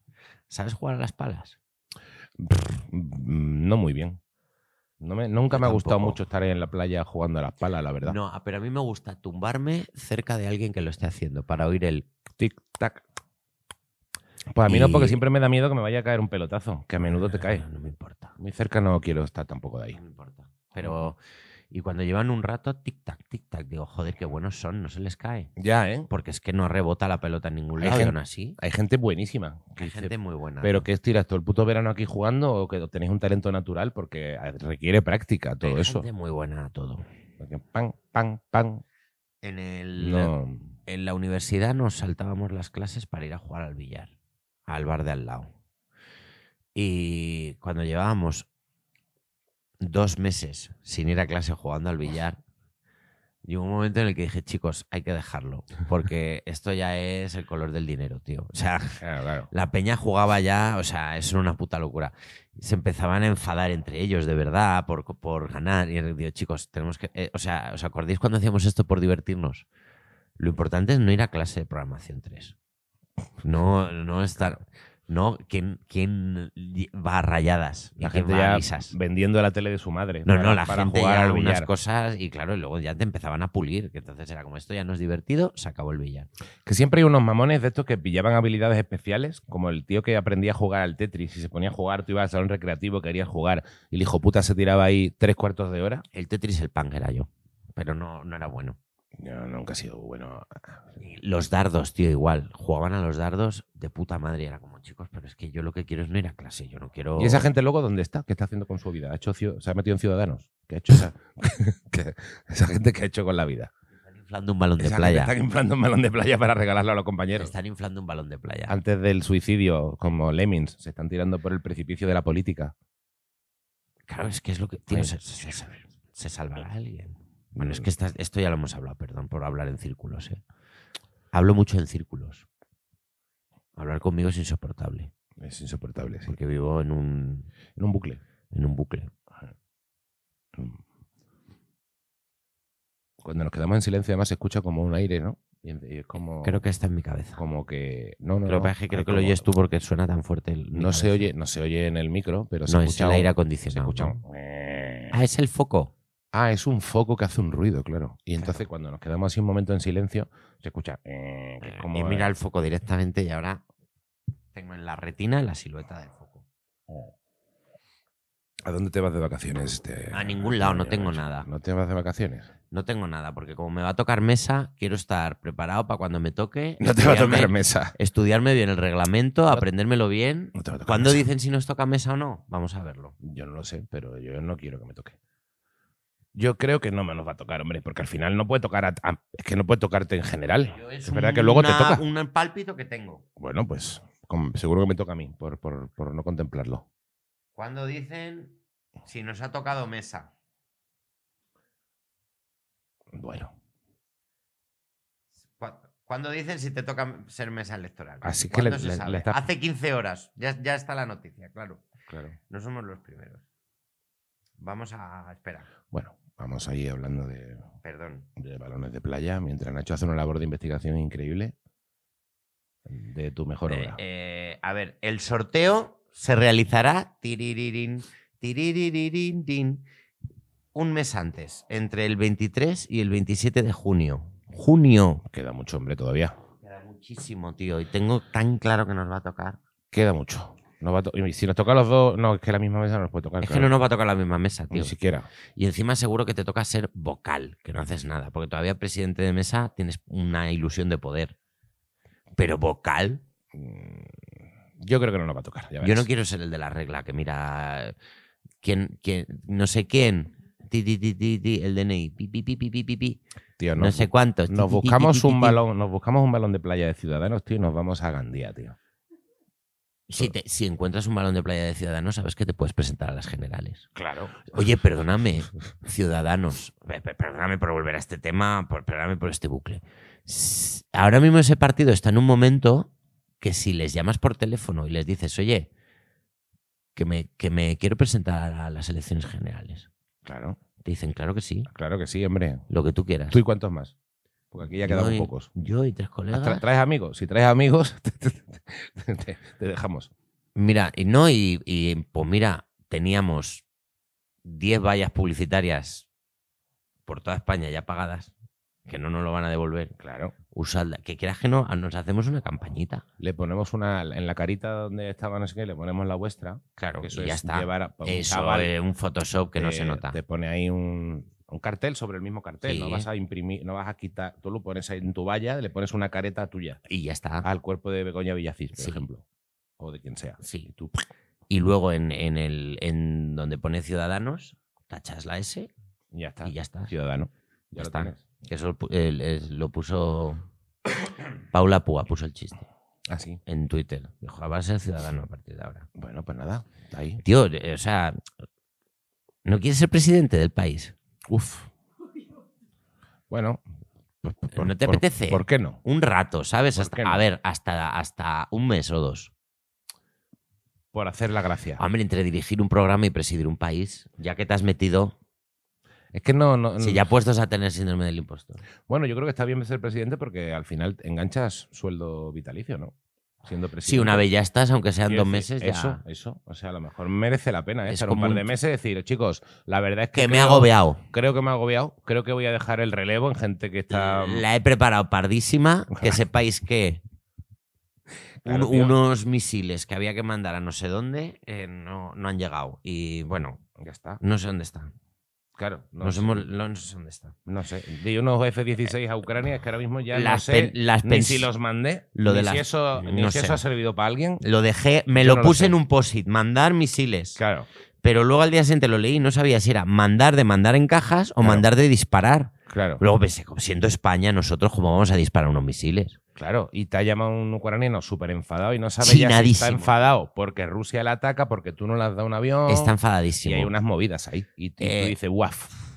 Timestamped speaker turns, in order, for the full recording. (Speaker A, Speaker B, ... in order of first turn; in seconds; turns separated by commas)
Speaker A: 0.5-1.6, Speaker B: 2.4-4.2, Speaker B: 5.0-8.2, Speaker A: 5.5-6.2, Speaker A: 8.0-12.1, Speaker B: 12.4-13.0, Speaker B: 14.5-17.6, Speaker A: 14.7-15.2, Speaker A: 17.1-18.4, Speaker B: 18.4-20.0, Speaker A: 19.9-21.2, Speaker B: 20.8-21.1, Speaker A: 21.7-25.5, Speaker B: 25.6-26.1, Speaker A: 26.1-28.6, Speaker B: 27.8-36.1, Speaker A: 29.8-30.9, Speaker A: 35.6-37.0, Speaker B: 37.4-38.8, Speaker A: 39.4-40.3, Speaker B: 40.0-40.7, Speaker A: 40.9-44.1, Speaker A: 44.7-45.5, Speaker A: 46.7-48.5, Speaker A: 49.8-52.4, Speaker A: 53.4-69.7, Speaker B: 59.0-59.5, Speaker A: 70.4-72.5, Speaker A: 73.4-79.0, Speaker B: 78.0-81.7, Speaker A: 80.2-86.3, Speaker B: 86.7-96.0, Speaker A: 96.1-98.8, Speaker B: 99.2-100.8, Speaker A: 101.0-107.5, Speaker B: 107.2-113.7, Speaker A: 114.1-115.3, Speaker B: 114.8-117.5, Speaker A: 117.4-118.8, Speaker B: 118.7-122.7, Speaker A: 124.1-130.4, Speaker B: 124.9-125.6, Speaker B: 127.5-127.9, Speaker A: 131.3-132.4, Speaker A: 133.8-135.1, Speaker B: 135.4-136.3, Speaker A: 136.2-137.5, Speaker B: 137.8-138.2, Speaker A: 138.5-139.1, Speaker B: 140.5-140.8, Speaker B: 143.2-146.6, Speaker A: 146.4-147.4, Speaker B: 147.4-149.5, Speaker A: 148.4-151.3, Speaker B: 150.7-155.2, Speaker A: 152.7-154.2, Speaker A: 155.1-155.9, Speaker B: 156.3-162.3, Speaker A: 158.4-158.6, Speaker A: 161.6-163.6, Speaker A: 164.5-166.4, Speaker B: 168.6-172.5, Speaker A: 170.1-171.5, Speaker A: 172.7-183.1, Speaker B: 176.8-177.9, Speaker B: 180.5-181.2, Speaker B: 183.2-185.2, Speaker B: 186.3-192.0, Speaker A: 190.7-193.2, Speaker B: 193.4-196.8, Speaker A: 197.5-200.3, Speaker B: 203.1-203.5, Speaker A: 205.6-211.8, Speaker B: 208.2-209.4, Speaker B: 212.1-212.3, Speaker A: 212.5-213.4, Speaker A: 214.6-215.7, Speaker B: 215.9-217.6, Speaker A: 217.8-218.3, Speaker B: 218.4-221.5, Speaker B: 222.9-224.0, Speaker A: 223.7-229.8, Speaker A: 230.7-235.2, Speaker B: 235.3-236.3, Speaker A: 236.6-239.6, Speaker B: 239.9-243.7, Speaker A: 243.4-244.9, Speaker B: 244.7-245.3, Speaker A: 245.5-251.3, Speaker A: 252.4-253.2, Speaker B: 253.5-256.1, Speaker A: 255.8-257.9, Speaker A: 258.6-263.2, Speaker B: 263.6-268.8, Speaker A: 263.7-265.6, Speaker A: 270.1-273.9, Speaker B: 273.9-274.4, Speaker A: 274.4-282.9, Speaker A: 283.4-285.7, Speaker A: 286.9-289.9, Speaker B: 290.2-290.6, Speaker A: 290.8-291.7, Speaker B: 291.7-292.6, Speaker A: 292.7-293.4, Speaker B: 293.3-293.9, Speaker B: 294.5-295.5, Speaker A: 294.8-296.6, Speaker B: 296.3-300.1, Speaker A: 300.6-303.6, Speaker A: 304.4-306.1, Speaker A: 307.1-308.3, Speaker A: 308.9-309.9, Speaker B: 310.0-310.3, Speaker A: 310.5-313.0, Speaker B: 313.2-318.7, Speaker A: 316.8-320.2, Speaker B: 319.6-326.8, Speaker A: 322.6-323.1, Speaker A: 326.9-327.5, Speaker B: 327.4-329.2, Speaker A: 328.8-329.0, Speaker B: 329.8-331.0, Speaker A: 330.4-330.7, Speaker A: 331.5-335.7, Speaker B: 336.1-338.2, Speaker A: 336.4-336.9, Speaker A: 337.8-340.4, Speaker A: 341.5-342.6, Speaker B: 343.1-343.4, Speaker A: 343.4-345.9, Speaker B: 346.0-347.2, Speaker A: 347.2-348.2, Speaker A: 349.4-350.9, Speaker B: 351.3-351.7, Speaker B: 353.3-353.6, Speaker B: 354.2-355.8, Speaker A: 354.5-359.3, Speaker B: 356.7-357.2, Speaker B: 360.9-361.8, Speaker A: 361.8-365.1, Speaker B: 366.1-367.1, Speaker A: 366.8-368.6, Speaker B: 368.9-374.2, Speaker A: 373.8-376.0, Speaker B: 375.1-384.4, Speaker A: 377.9-378.5, Speaker A: 380.1-381.0, Speaker A: 383.9-387.0, Speaker B: 388.4-388.9, Speaker A: 388.4-393.6, Speaker B: 393.8-394.2, Speaker A: 394.2-394.9, Speaker B: 395.5-396.5, Speaker A: 396.0-397.3, Speaker B: 397.4-404.4, Speaker A: 400.1-401.5, Speaker A: 402.1-403.6, Speaker A: 404.4-407.4, Speaker B: 405.1-405.8, Speaker B: 407.4-407.7, Speaker A: 408.0-416.2, Speaker B: 411.4-411.7, Speaker B: 412.7-413.0, Speaker B: 416.4-425.7, Speaker A: 419.0-419.9, Speaker A: 422.7-423.7, Speaker A: 424.8-425.1